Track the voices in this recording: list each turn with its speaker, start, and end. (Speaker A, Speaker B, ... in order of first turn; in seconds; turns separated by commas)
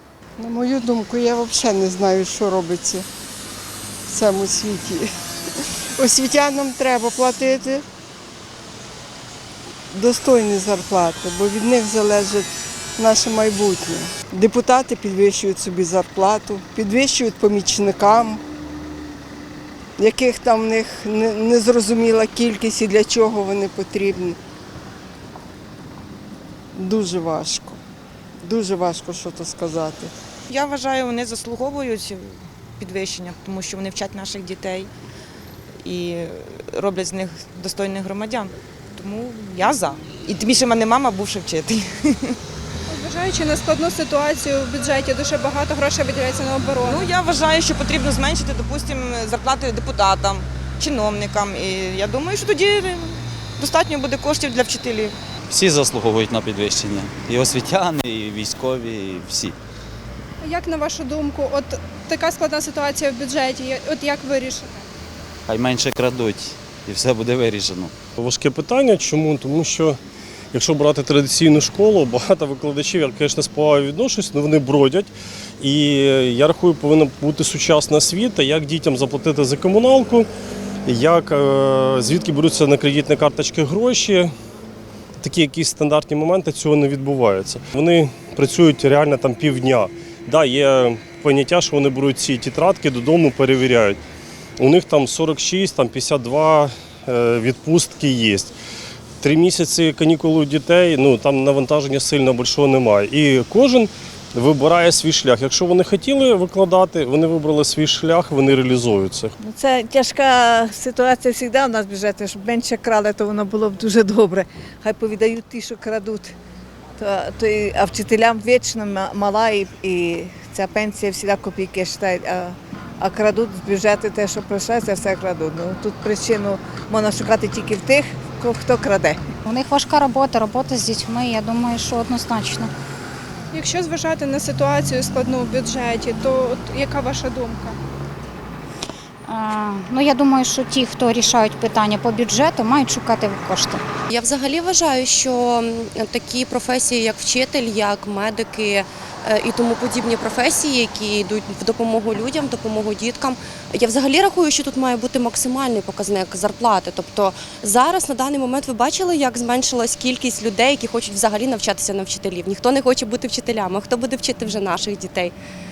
Speaker A: 0.4-3.1, Speaker A: 4.1-5.1, Speaker A: 6.0-7.8, Speaker A: 9.9-18.4, Speaker A: 20.0-24.4, Speaker A: 26.7-27.8, Speaker A: 28.4-30.1, Speaker B: 30.5-34.9, Speaker B: 35.8-42.4, Speaker C: 42.9-47.1, Speaker B: 46.8-55.2, Speaker D: 55.5-59.6, Speaker C: 60.4-64.8, Speaker D: 65.5-67.9, Speaker E: 68.2-70.0, Speaker E: 70.5-80.3, Speaker E: 80.9-84.3, Speaker E: 85.2-94.0, Speaker E: 94.6-98.5, Speaker E: 99.2-109.3, Speaker F: 109.4-116.3, Speaker F: 117.0-129.2, Speaker G: 129.5-132.7, Speaker C: 133.5-137.8, Speaker G: 139.3-143.8, Speaker H: 144.1-165.3